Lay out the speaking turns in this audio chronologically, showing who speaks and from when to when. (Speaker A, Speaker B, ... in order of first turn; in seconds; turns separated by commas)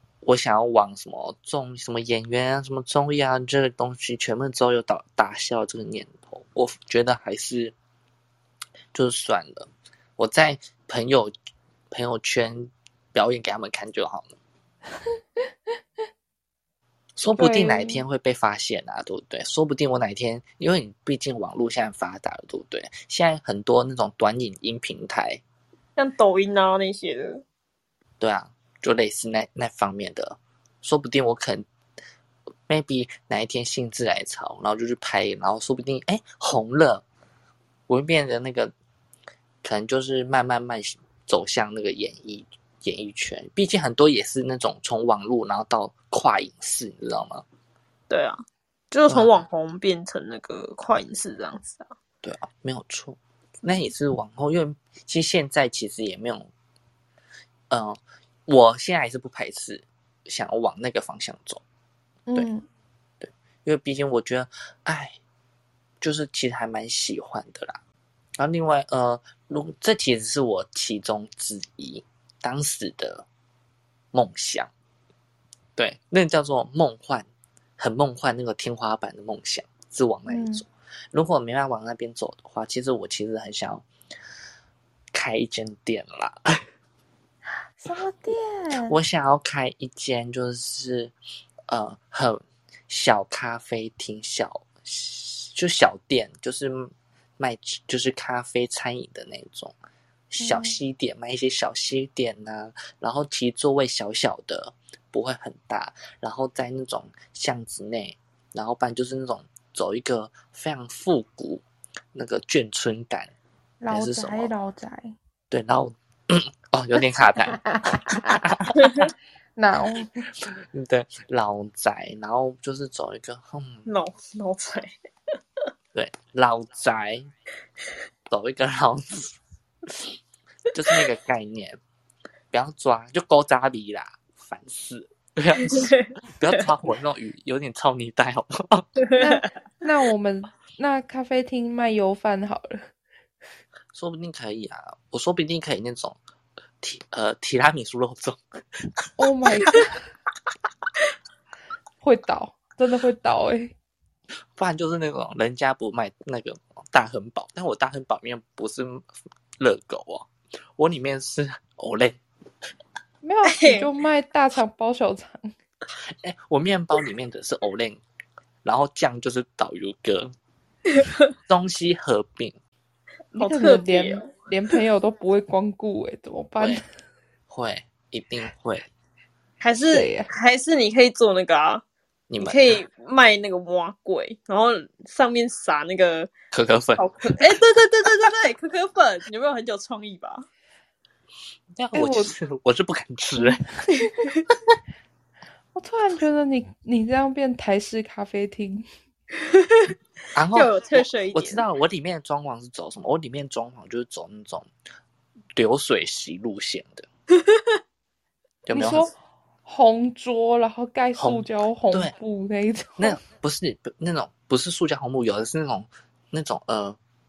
Speaker A: 0.2-7.7, Speaker A: 8.9-11.3, Speaker A: 11.9-14.3, Speaker A: 17.1-25.4, Speaker B: 17.3-18.0, Speaker C: 25.9-27.4, Speaker A: 28.2-31.6, Speaker A: 32.7-37.0, Speaker A: 37.9-38.7, Speaker A: 39.6-47.4, Speaker C: 48.1-51.9, Speaker A: 52.2-56.5, Speaker A: 57.7-61.6, Speaker B: 62.3-62.6, Speaker A: 63.2-65.2, Speaker A: 66.0-67.8, Speaker A: 68.4-73.2, Speaker A: 74.1-74.7, Speaker A: 75.8-77.3, Speaker A: 77.8-83.8, Speaker B: 80.3-80.6, Speaker A: 85.1-86.6, Speaker B: 87.8-89.0, Speaker A: 88.7-91.1, Speaker A: 91.7-99.8, Speaker A: 100.3-113.3, Speaker B: 100.4-100.8, Speaker B: 113.8-115.1, Speaker A: 113.9-114.5, Speaker A: 115.5-119.0, Speaker B: 117.7-118.5, Speaker B: 119.5-120.2, Speaker A: 120.7-123.8, Speaker C: 123.9-124.9, Speaker A: 125.9-127.3, Speaker A: 128.3-129.4, Speaker A: 130.7-131.8, Speaker A: 132.5-138.9, Speaker C: 135.6-136.6, Speaker B: 139.2-142.9, Speaker A: 143.9-146.2, Speaker A: 146.8-149.0, Speaker B: 149.2-150.0, Speaker B: 152.0-153.7, Speaker A: 154.6-159.1, Speaker A: 159.6-162.2, Speaker B: 163.2-165.5, Speaker C: 163.4-163.9, Speaker A: 166.0-168.0, Speaker A: 168.6-170.3, Speaker A: 171.5-172.5, Speaker B: 173.3-176.8, Speaker C: 173.4-174.3, Speaker A: 177.5-178.8, Speaker C: 179.6-181.8, Speaker B: 179.8-180.3, Speaker A: 182.3-182.8, Speaker C: 182.4-186.3, Speaker A: 186.5-187.5, Speaker C: 187.0-190.4, Speaker A: 191.8-193.6, Speaker B: 191.9-192.3, Speaker B: 193.4-194.1, Speaker C: 194.0-194.4, Speaker B: 195.7-198.9, Speaker C: 199.3-199.9, Speaker A: 200.3-204.7, Speaker C: 200.5-201.6, Speaker A: 205.5-207.1, Speaker C: 207.3-207.8, Speaker A: 208.7-209.1, Speaker B: 208.7-209.1, Speaker B: 209.7-213.2, Speaker A: 211.2-212.1, Speaker A: 213.0-217.0